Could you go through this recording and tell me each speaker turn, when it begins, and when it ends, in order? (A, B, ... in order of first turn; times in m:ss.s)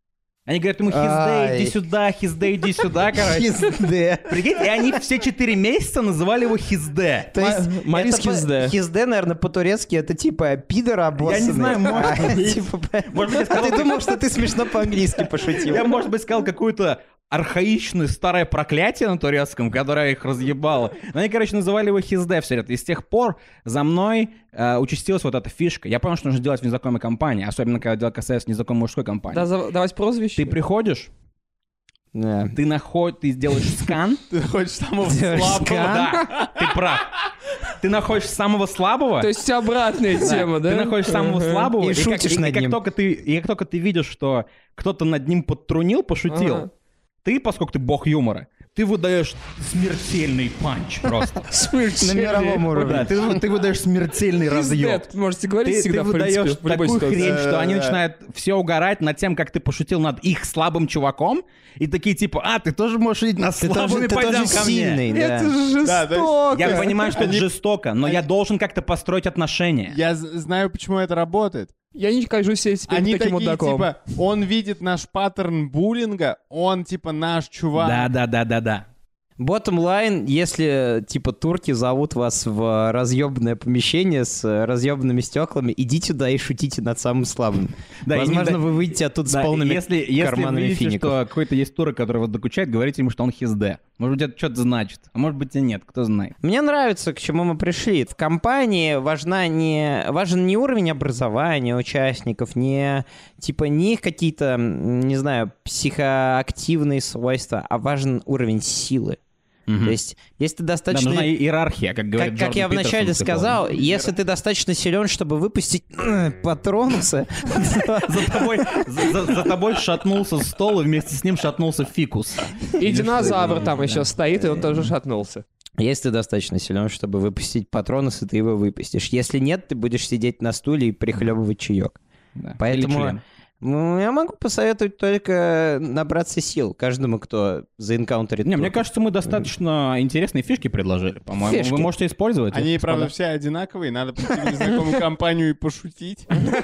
0:00.5-0:03.7 A
0:00.9-0:01.8 B
0:03.0-0:05.0 B
0:04.3-0:07.3 A
0:07.3-0:16.0 B
0:07.4-0:08.7 C
0:11.2-0:14.9 A
0:15.5-0:29.5 A
0:29.3-0:30.5 C
0:30.4-0:31.1 A
0:32.1-0:32.6 B
0:32.6-0:34.2 A
0:34.3-0:36.8 D
0:35.0-0:36.2 B
0:35.7-0:37.1 A
0:37.7-0:39.3 A
0:39.2-0:41.7 C
0:40.2-0:46.7 A
0:41.8-0:42.8 B
0:46.3-0:46.7 C
0:47.2-0:51.4 A
0:51.4-0:53.0 C
0:52.0-0:53.3 B
0:52.8-0:55.1 A
0:54.5-0:57.3 C
0:55.6-1:05.0 A
0:57.2-0:58.0 D
1:03.6-1:05.5 B
1:05.1-1:07.2 C
1:05.8-1:07.5 D
1:06.5-1:10.0 A
1:09.9-1:11.7 D
1:11.9-1:13.9 C
1:12.9-1:18.1 D
1:17.8-1:18.9 A
1:19.4-1:31.2 B
1:28.0-1:28.6 A
1:29.3-1:36.4 A
1:36.4-1:49.2 B
1:49.7-1:50.0 A
1:49.8-1:51.3 B
1:50.9-1:53.6 A
1:52.2-1:59.4 B
1:58.0-2:04.1 A
2:02.8-2:05.4 C
2:05.8-2:12.0 B
2:12.4-2:13.2 A
2:12.6-2:19.4 B
2:18.4-2:23.1 A
2:21.4-2:21.9 B
2:22.5-2:26.4 D